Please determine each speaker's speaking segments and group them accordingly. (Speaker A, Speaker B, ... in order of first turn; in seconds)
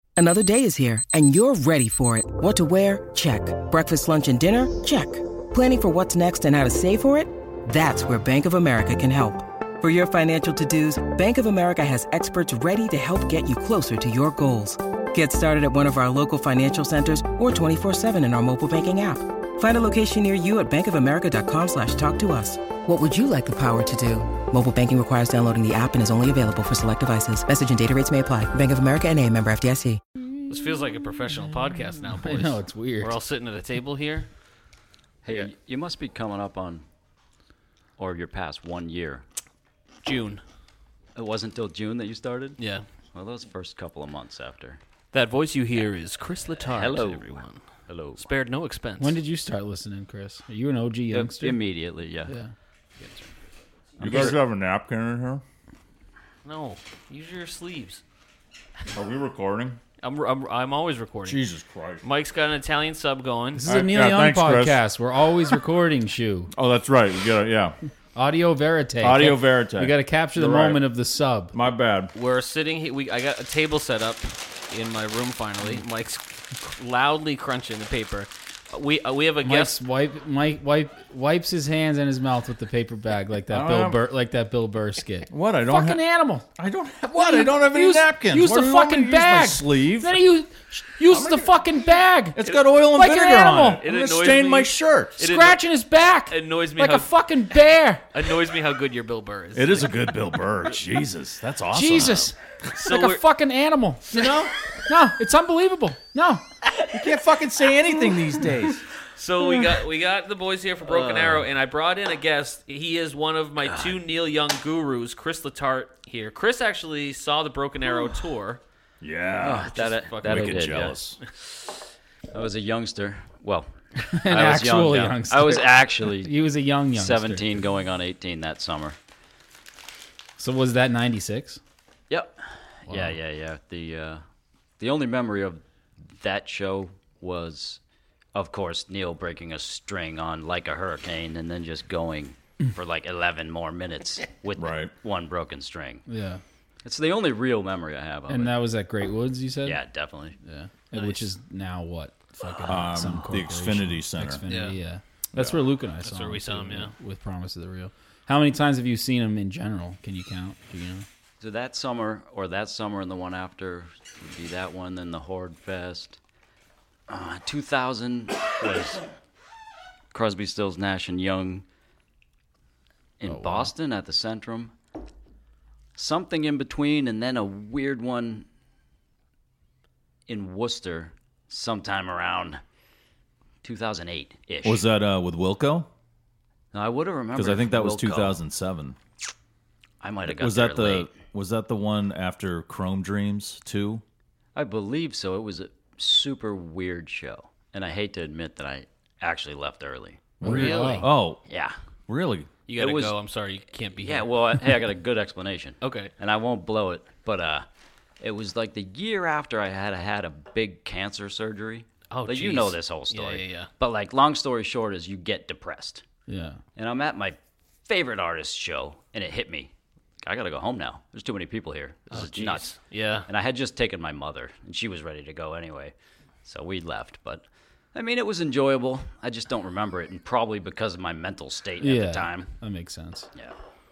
Speaker A: 0.2-30.0
Speaker B: 30.5-34.3, 40.0-40.4, 42.6-42.9, 45.1-47.6, 48.2-49.2, 56.5-58.0, 60.0-61.4, 62.0-63.7, 72.2-79.8, 93.8-95.6, 96.3-97.1, 98.1-100.1, 102.0-103.2, 104.2-104.5, 109.2-118.6, 119.6-121.0, 150.9-151.3, 154.5-154.8, 156.0-156.9, 200.4-201.1, 202.7-204.8, 205.8-206.1, 212.1-213.7, 222.1-223.3
Speaker C: 32.2-33.1, 49.0-51.6, 52.3-52.5, 63.6-66.5, 68.2-71.6, 79.4-86.5, 87.1-93.8, 95.2-98.0, 101.7-104.2, 104.9-106.5, 124.2-127.5, 130.4-131.6, 132.9-133.2, 146.1-146.4, 148.3-149.8, 150.4-161.1, 173.2-173.7, 200.4-201.1, 216.3-216.6, 231.8-233.3
Speaker D: 35.2-36.9, 38.0-39.2, 41.2-42.6, 43.1-44.8, 46.6-48.3, 51.1-52.4, 54.0-54.4, 110.9-111.5, 113.7-114.0, 119.4-121.0, 122.3-123.7, 124.3-126.4, 126.9-129.0, 132.1-134.2, 134.8-137.8, 138.3-146.0, 146.8-148.6, 149.6-150.4, 161.4-166.2, 167.1-169.0, 170.1-171.7, 173.2-174.7, 175.9-178.5, 180.3-182.6, 183.6-184.9, 186.7-188.4, 190.0-191.2, 194.6-200.5, 201.5-201.8, 203.9-207.7, 208.2-216.0, 216.8-232.5
Speaker E: 54.0-55.4, 58.9-59.8, 61.3-62.0, 63.7-64.8, 66.5-67.8, 69.0-70.8, 71.5-72.1, 83.5-84.0, 85.3-86.0, 86.5-90.2, 91.1-91.6, 92.4-95.2, 99.5-102.2, 106.9-108.8, 119.0-121.2, 144.6-144.9, 152.7-154.4, 155.3-155.6, 184.6-185.9, 187.4-189.0, 190.3-194.0, 200.5-201.4, 202.1-203.1